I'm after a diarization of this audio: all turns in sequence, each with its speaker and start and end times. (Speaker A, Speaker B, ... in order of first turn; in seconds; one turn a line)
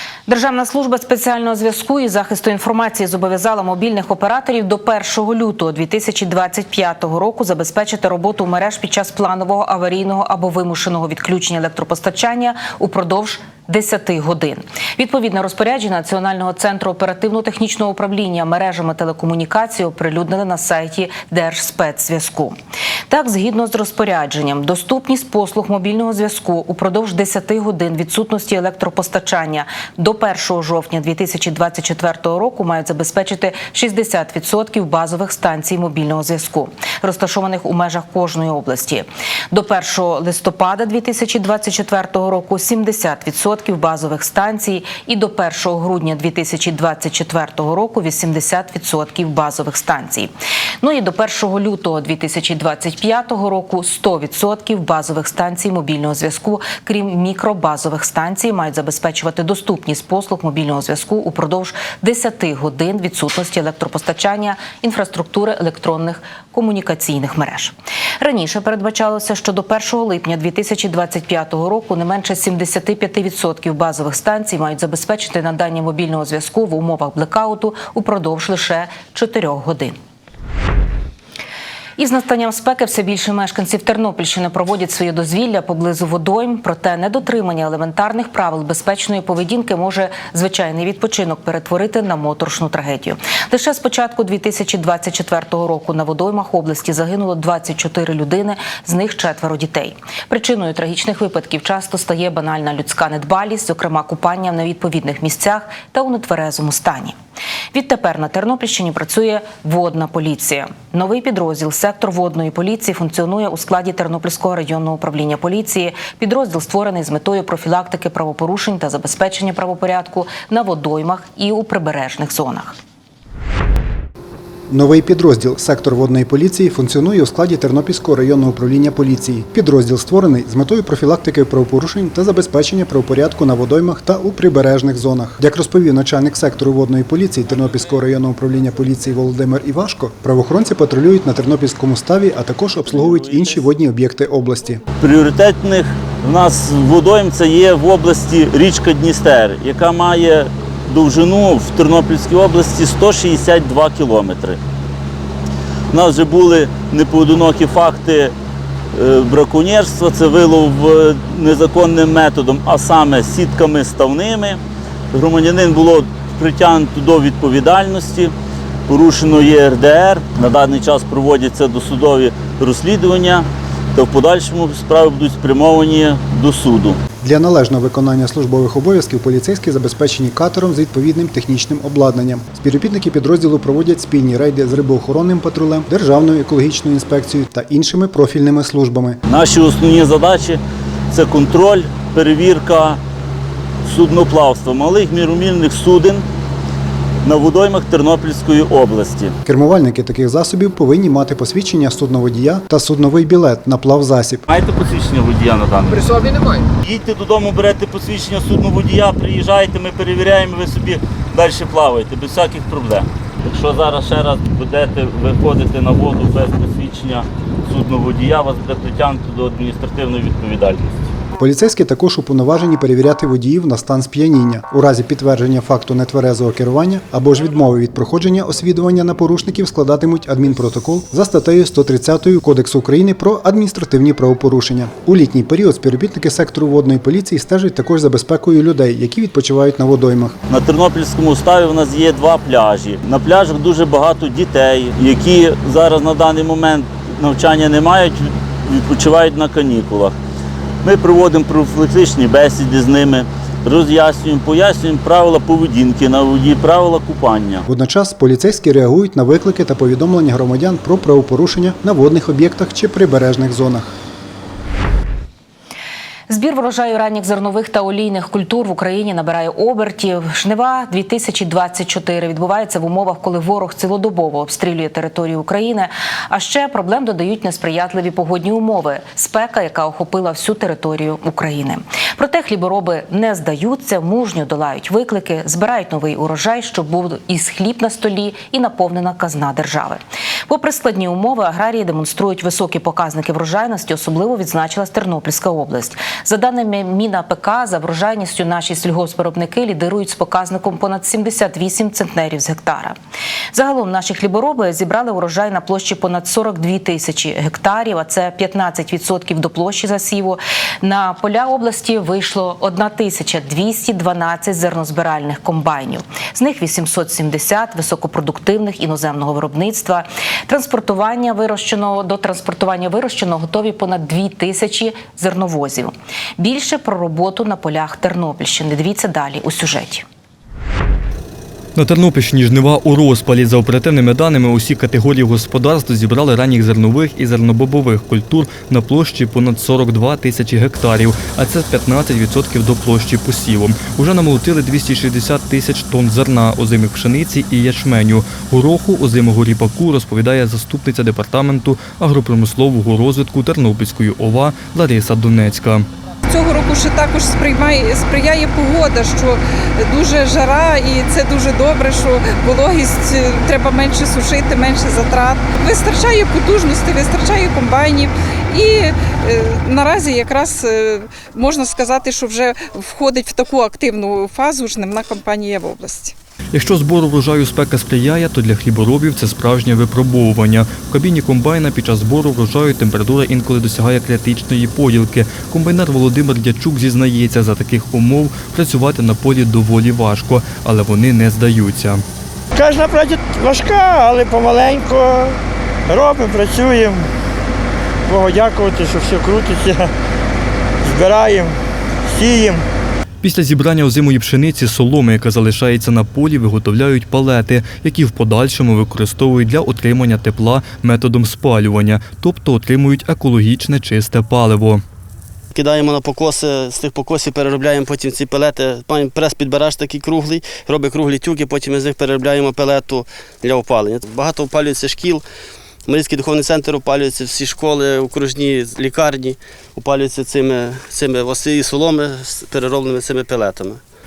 Speaker A: 0.3-22.6
Speaker A: 23.1-80.0
Speaker A: 82.0-107.2
Speaker A: 107.7-122.8
Speaker B: 124.7-144.8
Speaker C: 145.0-154.6
Speaker C: 155.9-158.3
Speaker C: 158.9-164.6
Speaker C: 165.1-168.3
Speaker C: 168.9-177.0
Speaker B: 177.2-189.2
Speaker C: 189.3-193.0
Speaker C: 193.8-196.2
Speaker C: 197.2-199.3
Speaker B: 199.4-204.4
Speaker C: 204.5-206.2
Speaker C: 206.8-221.1
Speaker B: 221.4-240.4
Speaker C: 240.5-250.2
Speaker C: 250.8-257.6
Speaker B: 257.7-263.9
Speaker A: 266.3-303.0
Speaker A: 303.5-330.1
Speaker D: 331.8-355.9
Speaker E: 356.3-376.1
Speaker D: 376.5-392.0
Speaker F: 392.5-397.1
Speaker F: 398.1-399.9
Speaker F: 400.8-402.7
Speaker D: 403.2-414.8
Speaker G: 415.5-425.2
Speaker G: 425.9-433.8